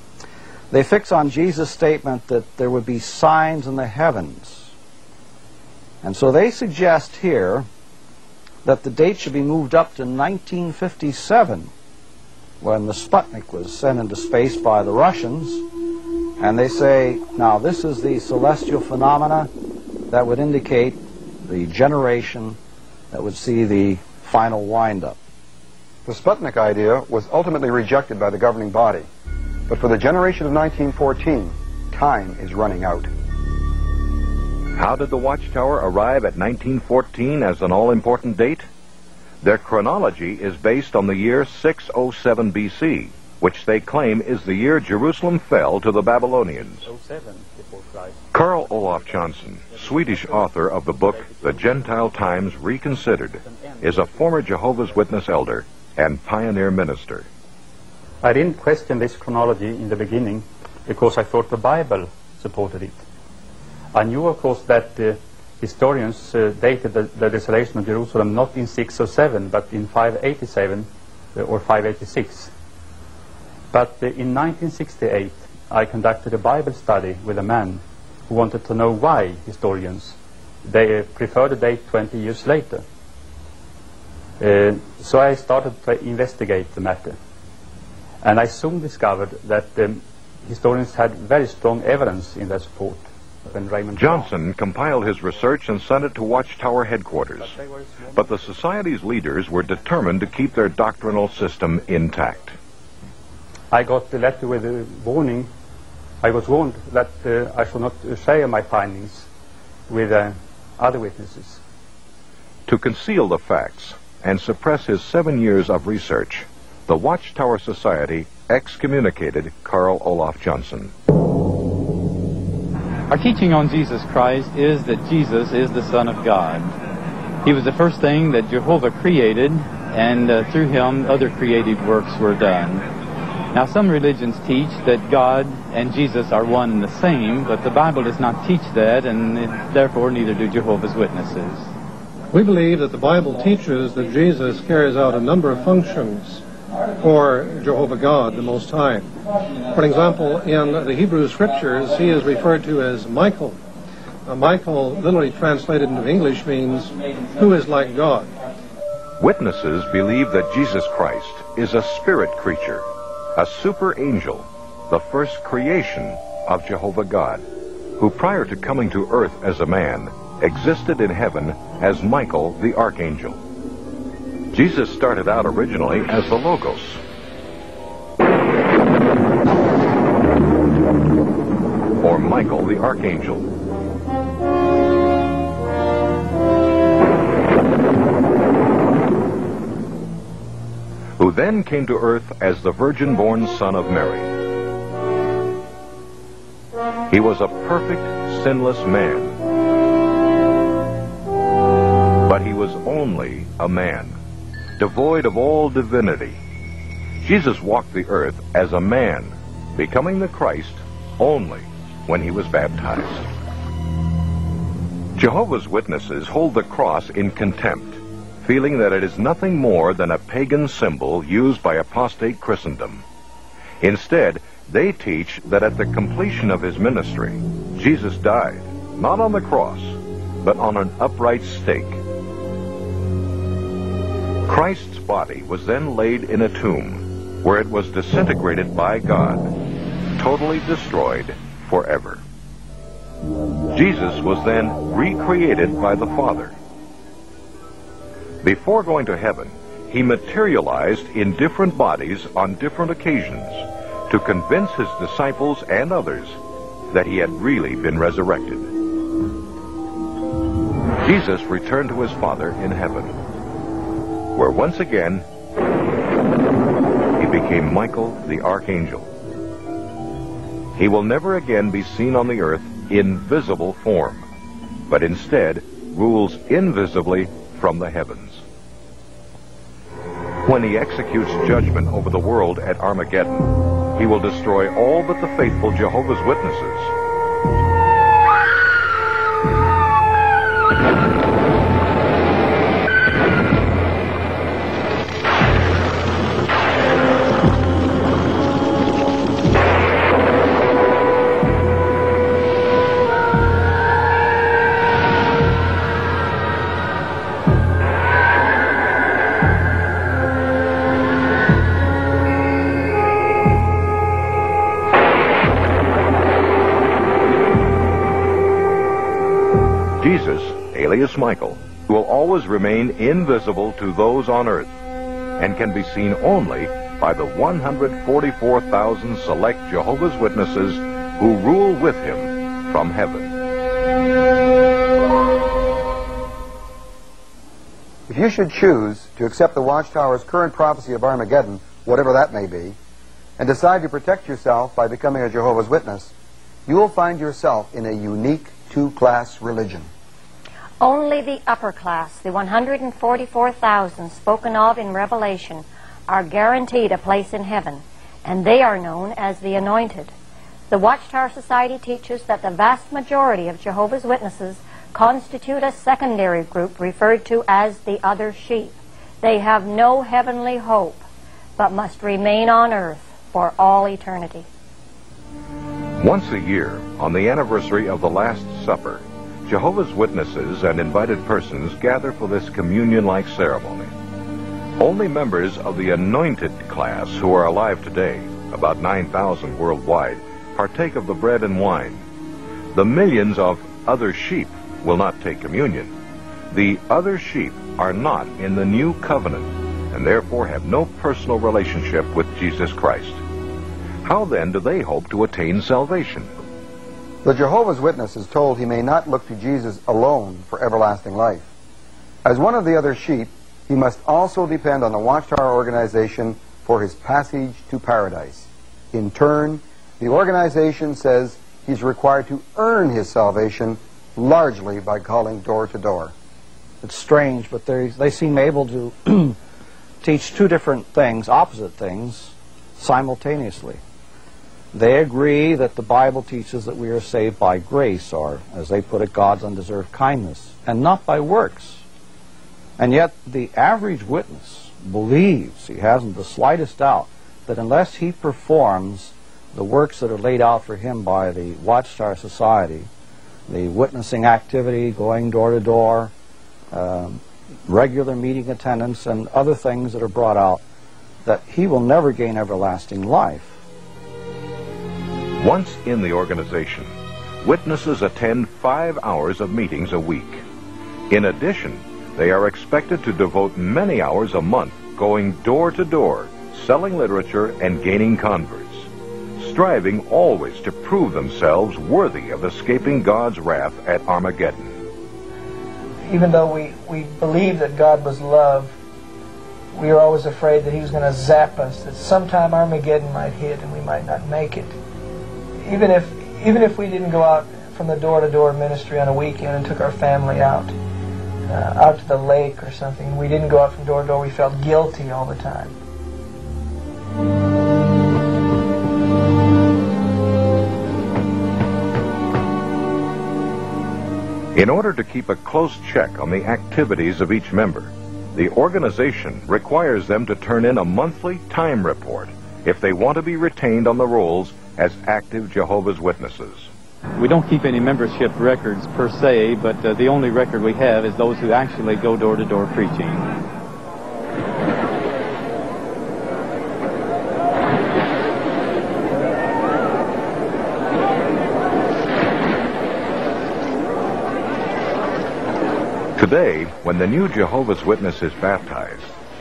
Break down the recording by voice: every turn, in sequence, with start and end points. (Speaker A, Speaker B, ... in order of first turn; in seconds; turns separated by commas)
Speaker A: 0.7-4.7, Speaker A: 6.0-7.7, Speaker A: 8.6-11.7, Speaker A: 12.6-15.7, Speaker A: 16.4-19.5, Speaker A: 20.1-22.6, Speaker A: 23.1-25.2, Speaker B: 26.1-29.1, Speaker B: 29.7-33.1, Speaker C: 34.8-38.6, Speaker C: 39.4-46.9, Speaker D: 46.8-49.1, Speaker C: 48.3-57.3, Speaker D: 49.7-50.5, Speaker D: 51.0-51.9, Speaker D: 53.4-54.2, Speaker D: 58.2-63.0, Speaker D: 63.9-72.5, Speaker D: 73.7-82.8, Speaker D: 84.4-87.2, Speaker D: 88.2-94.3, Speaker C: 94.0-97.5, Speaker D: 97.4-98.4, Speaker C: 98.1-102.6, Speaker D: 103.7-105.5, Speaker D: 106.2-109.3, Speaker D: 109.9-111.6, Speaker C: 112.7-120.9, Speaker E: 123.1-126.8, Speaker E: 127.4-132.8, Speaker E: 133.5-141.7, Speaker F: 142.3-146.4, Speaker F: 147.0-149.1, Speaker F: 149.7-153.6, Speaker F: 154.3-158.3, Speaker C: 159.2-167.4, Speaker C: 168.0-173.4, Speaker C: 174.5-177.0, Speaker C: 182.0-183.4, Speaker C: 191.2-194.3, Speaker C: 197.1-199.4, Speaker C: 202.3-204.2, Speaker C: 204.8-206.4, Speaker C: 207.2-213.2, Speaker C: 215.2-223.0, Speaker C: 223.8-232.0, Speaker C: 234.5-239.5, Speaker C: 240.2-242.2, Speaker C: 243.7-246.5, Speaker C: 248.4-256.4, Speaker C: 256.9-258.7, Speaker C: 261.0-263.1, Speaker C: 264.4-265.2, Speaker C: 267.2-269.1, Speaker C: 270.8-274.2, Speaker C: 274.9-278.4, Speaker C: 280.4-286.9, Speaker C: 320.0-324.7, Speaker C: 325.4-333.3, Speaker B: 338.1-342.8, Speaker B: 343.4-346.1, Speaker B: 346.7-349.9, Speaker G: 350.8-360.1, Speaker G: 360.7-371.0, Speaker G: 371.6-374.5, Speaker C: 376.0-383.9, Speaker C: 384.8-392.0, Speaker C: 392.7-395.9, Speaker C: 396.5-403.2, Speaker C: 404.0-406.3, Speaker B: 407.2-411.5, Speaker B: 412.2-426.1, Speaker A: 426.8-429.4, Speaker A: 430.0-433.8, Speaker A: 434.7-441.8, Speaker A: 442.8-452.9, Speaker A: 453.5-456.1, Speaker A: 456.7-460.6, Speaker A: 461.2-463.6, Speaker C: 465.4-470.4, Speaker C: 471.1-484.8, Speaker H: 486.1-488.7, Speaker H: 489.7-494.7, Speaker H: 495.6-500.7, Speaker H: 501.5-505.7, Speaker C: 514.5-526.7, Speaker E: 527.2-533.3, Speaker C: 546.2-549.1